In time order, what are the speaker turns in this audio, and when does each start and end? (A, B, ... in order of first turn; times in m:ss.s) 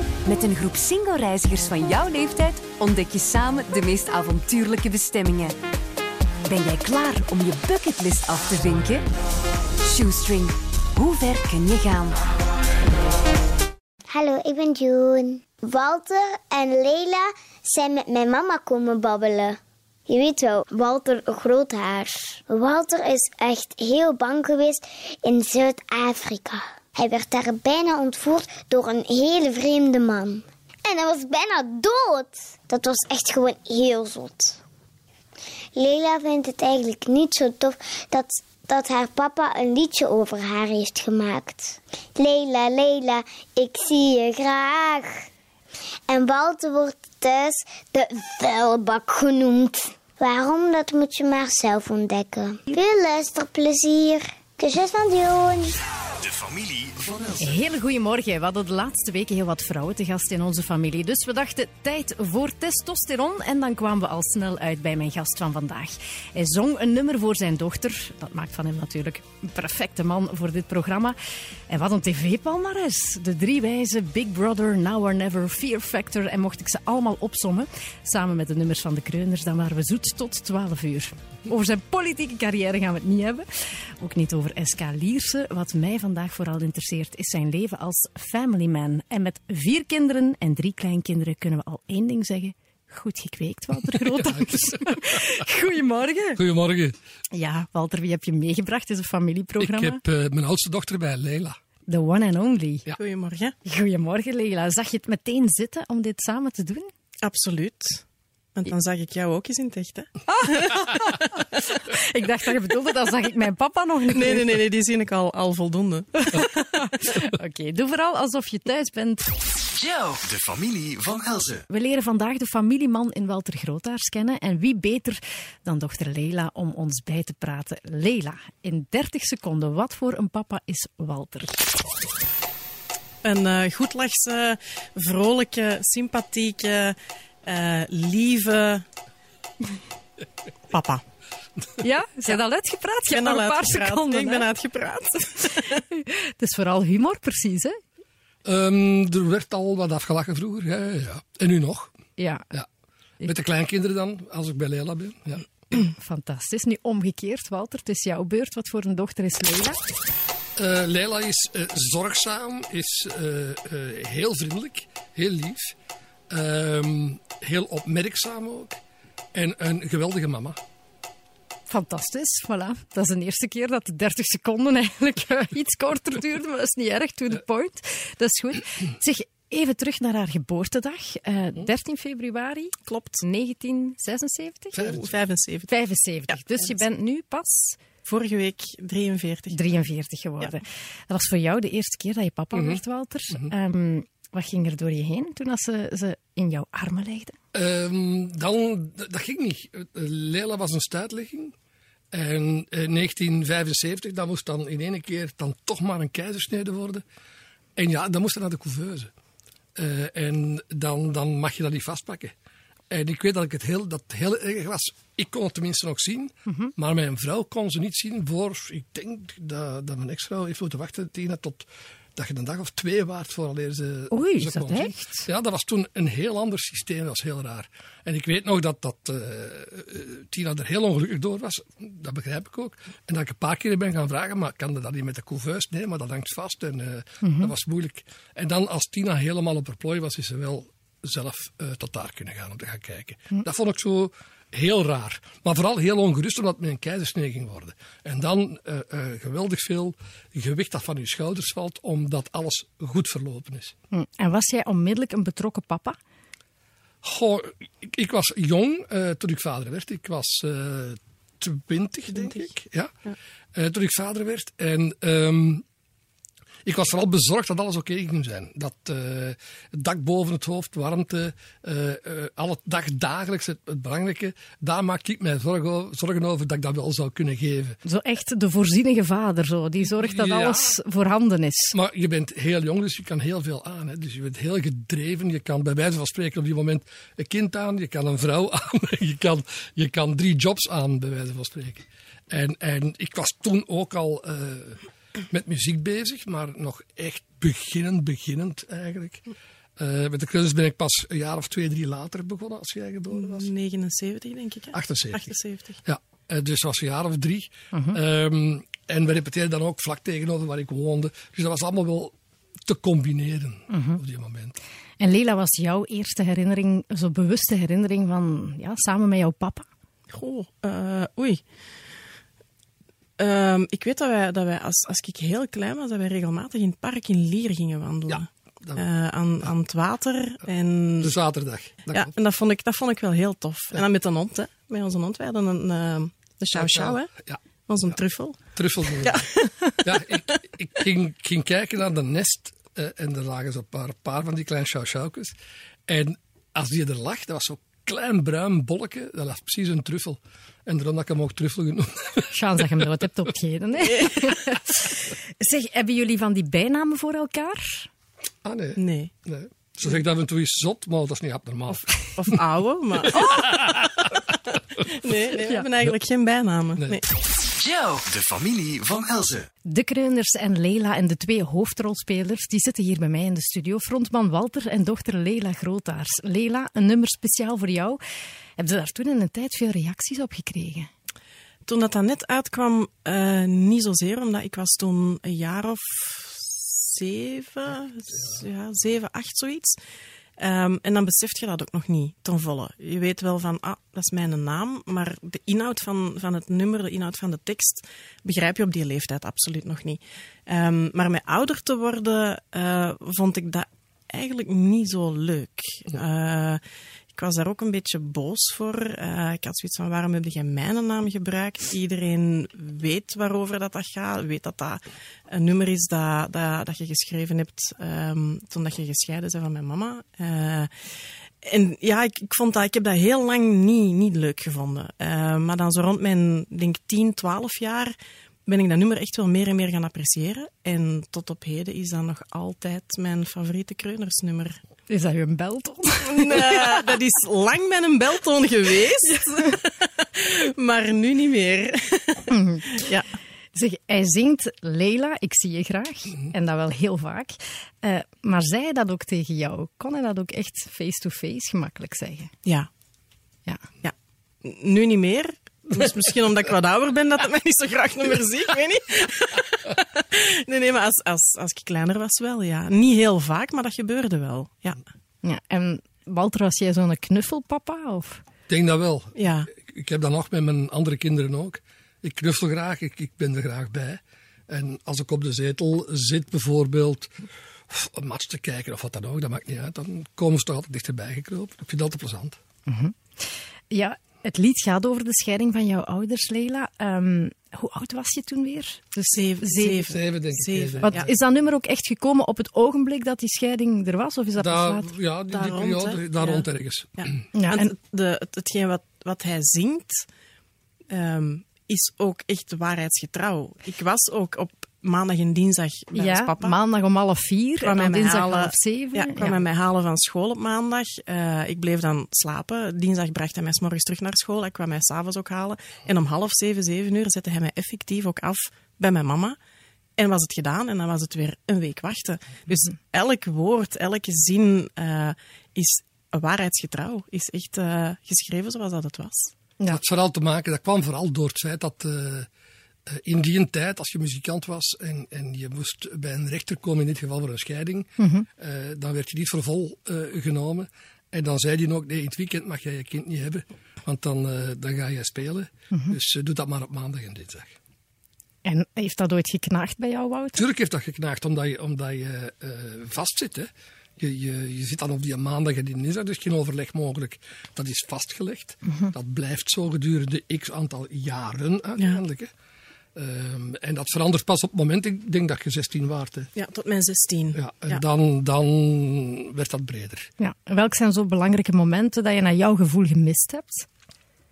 0:00.3-0:05.5 A
0:06.5-0:09.0 A
0:09.9-0:12.1 A
0:14.1-0:34.6 B
0:35.8-0:45.3 B
0:46.1-0:55.7 B
0:56.2-0:57.6 C
0:57.4-1:11.2 D
1:11.7-1:23.5 D
1:24.0-1:36.4 D
1:33.8-1:35.1 E
1:36.4-1:37.0 E
1:37.3-1:40.0 D
1:39.6-1:41.6 E
1:41.9-1:42.9 D
1:43.0-1:43.6 F
1:43.6-1:46.9 D
1:47.2-1:48.0 F
1:48.6-1:51.4 F
1:50.3-1:54.4 D
1:54.1-1:56.4 F
1:56.3-1:59.2 D
1:59.7-2:01.6 C
2:01.7-2:11.6 D
2:13.2-2:18.9 F
2:20.7-2:21.0 F
2:21.8-2:24.5 D
2:23.1-2:25.8 F
2:25.6-2:27.8 D
2:28.4-2:31.9 E
2:32.2-2:32.5 D
2:33.2-2:35.5 E
2:35.7-2:39.8 D
2:40.6-2:45.8 E
2:46.3-2:48.8 E
2:49.3-2:50.6 E
2:51.7-3:04.9 D
3:02.9-3:03.2 F
3:04.8-3:05.1 E
3:04.8-3:05.7 F
3:05.7-3:07.8 D
3:08.0-3:09.7 F
3:09.5-3:17.4 D
3:12.5-3:13.5 E
3:17.5-3:21.6 E
3:22.1-3:27.0 E
3:27.8-3:29.1 E
3:29.8-3:32.3 E
3:32.9-4:13.8 E
3:36.5-3:36.7 D
3:44.1-3:45.3 D
3:57.2-3:57.5 D
4:13.9-4:16.0 D
4:17.0-4:22.9 E
4:22.1-4:22.5 F
4:23.6-4:25.6 E
4:26.6-4:37.8 E
4:37.8-4:41.8 D
4:39.9-4:40.8 E
4:41.7-4:59.2 E
4:59.8-5:03.5 E
5:03.2-5:05.8 F
5:04.7-5:05.3 E
5:05.8-5:12.2 E
5:07.7-5:08.0 D
5:12.7-5:14.6 E
5:13.7-5:14.0 D
5:15.0-5:19.7 D
5:20.1-5:21.4 F
5:23.2-5:31.2 F
5:28.1-5:28.8 E
5:31.0-5:32.1 E
5:31.9-5:37.1 F
5:36.5-5:37.4 E
5:37.7-5:39.5 F
5:38.6-5:39.3 E
5:39.8-5:45.4 E
5:45.9-5:52.9 E
5:52.3-5:57.9 D
5:53.9-5:54.2 F
5:58.4-6:02.3 E
5:58.8-5:59.1 F
6:02.2-6:03.5 F
6:03.4-6:03.8 E
6:04.9-6:07.1 F
6:07.5-6:09.5 C
6:09.7-6:18.0 D
6:18.6-6:20.9 D
6:21.7-6:29.8 F
6:30.4-6:46.6 F
6:47.1-7:00.7 F
7:01.4-7:08.0 F
7:08.5-7:14.6 F
7:14.9-7:16.8 D
7:16.1-7:23.1 F
7:22.3-7:22.8 D
7:23.5-7:32.3 D
7:33.8-7:44.8 F
7:45.2-7:48.2 D
7:48.5-7:57.1 E
7:49.2-7:49.5 F
7:57.7-8:02.4 E
8:02.7-8:03.0 D
8:03.7-8:09.9 D
8:09.1-8:11.1 F
8:09.9-8:11.1 E
8:10.9-8:14.9 D
8:14.4-8:17.1 E
8:15.3-8:16.5 F
8:17.0-8:20.1 F
8:17.3-8:17.7 D
8:20.9-8:26.6 F
8:25.9-8:29.4 D
8:27.6-8:39.4 F
8:40.0-8:49.3 F
8:49.7-8:52.3 E
8:52.9-9:07.6 E
8:58.0-8:58.3 D
9:05.7-9:06.0 D
9:08.4-9:10.5 D
9:10.4-9:22.3 E
9:18.7-9:18.9 D
9:23.0-9:26.3 E
9:26.4-9:27.8 F
9:27.4-9:30.1 E
9:30.2-9:33.7 D